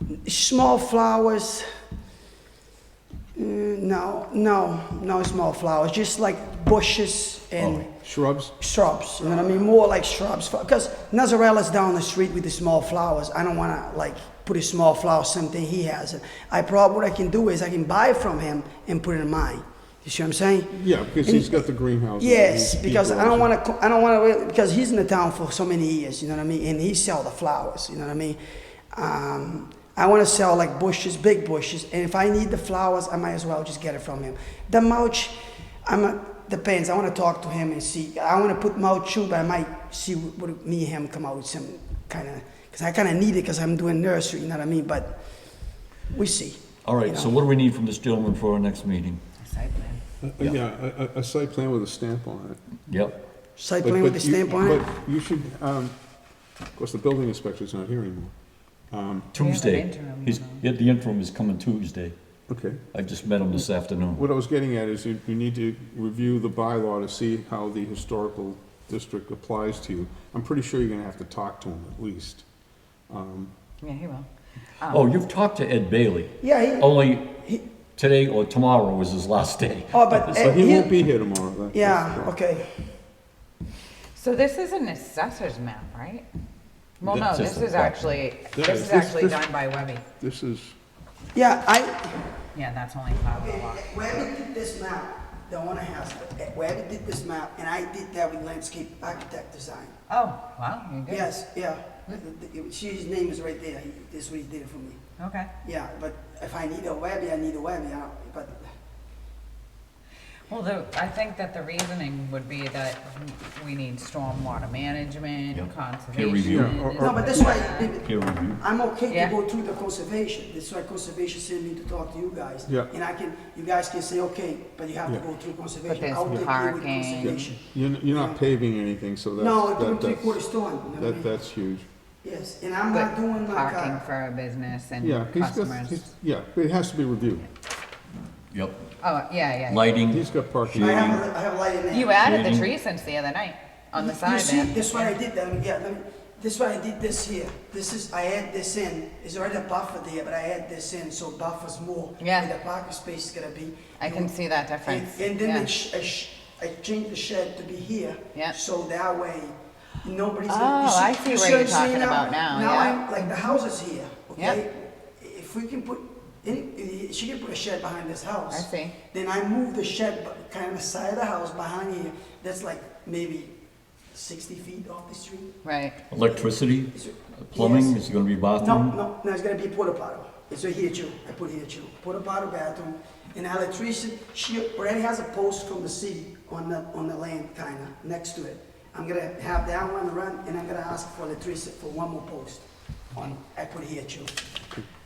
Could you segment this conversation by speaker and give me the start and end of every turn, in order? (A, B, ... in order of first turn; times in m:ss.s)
0:00.2-0:01.7 A
0:03.3-0:07.9 A
0:07.6-0:08.5 B
0:08.6-0:21.6 A
0:20.7-0:23.5 B
0:22.2-0:28.4 A
0:28.9-0:45.2 A
0:46.1-0:47.3 A
0:46.8-0:49.2 C
0:49.4-0:50.0 D
0:50.2-0:52.6 B
0:52.9-0:53.1 C
0:53.6-0:54.9 A
0:53.8-0:56.0 B
0:56.8-0:58.3 B
0:58.9-0:59.3 B
0:59.3-1:02.2 C
0:59.3-1:00.6 D
1:02.5-1:02.8 B
1:02.9-1:04.2 C
1:04.1-1:12.4 B
1:13.1-1:13.5 B
1:13.8-1:14.3 D
1:14.8-1:15.1 D
1:14.9-1:17.3 C
1:16.4-1:17.6 A
1:18.0-1:20.5 C
1:19.9-1:20.9 A
1:20.4-1:22.3 B
1:21.7-1:22.9 A
1:24.1-1:26.2 D
1:27.0-1:30.0 D
1:27.0-1:28.0 C
1:27.1-1:27.4 B
1:28.5-1:29.5 B
1:30.2-1:30.7 B
1:31.3-1:32.3 A
1:32.5-1:34.0 D
1:33.3-1:39.9 A
1:40.1-1:41.3 D
1:41.1-1:45.0 A
1:45.2-1:45.5 D
1:45.6-1:48.7 A
1:50.5-1:57.9 D
1:55.5-1:56.8 C
1:56.4-1:57.5 B
1:57.0-2:08.4 A
1:58.0-1:58.6 C
1:59.1-1:59.4 D
2:05.8-2:07.5 D
2:07.2-2:10.4 B
2:09.4-2:11.3 A
2:10.9-2:11.9 B
2:12.2-2:14.0 A
2:12.9-2:16.0 D
2:15.0-2:17.5 B
2:18.5-2:18.9 C
2:19.0-2:20.0 D
2:19.7-2:21.2 C
2:20.1-2:21.2 B
2:20.7-2:22.2 A
2:21.9-2:25.1 D
2:22.2-2:22.7 C
2:23.9-2:34.3 A
2:32.2-2:32.5 D
2:34.0-2:35.7 D
2:34.8-2:53.5 A
2:40.5-2:43.5 D
2:48.5-2:49.0 D
2:54.1-2:55.6 A
2:55.6-2:56.0 D
2:56.1-2:58.9 C
2:56.2-2:58.0 A
2:58.6-3:14.3 A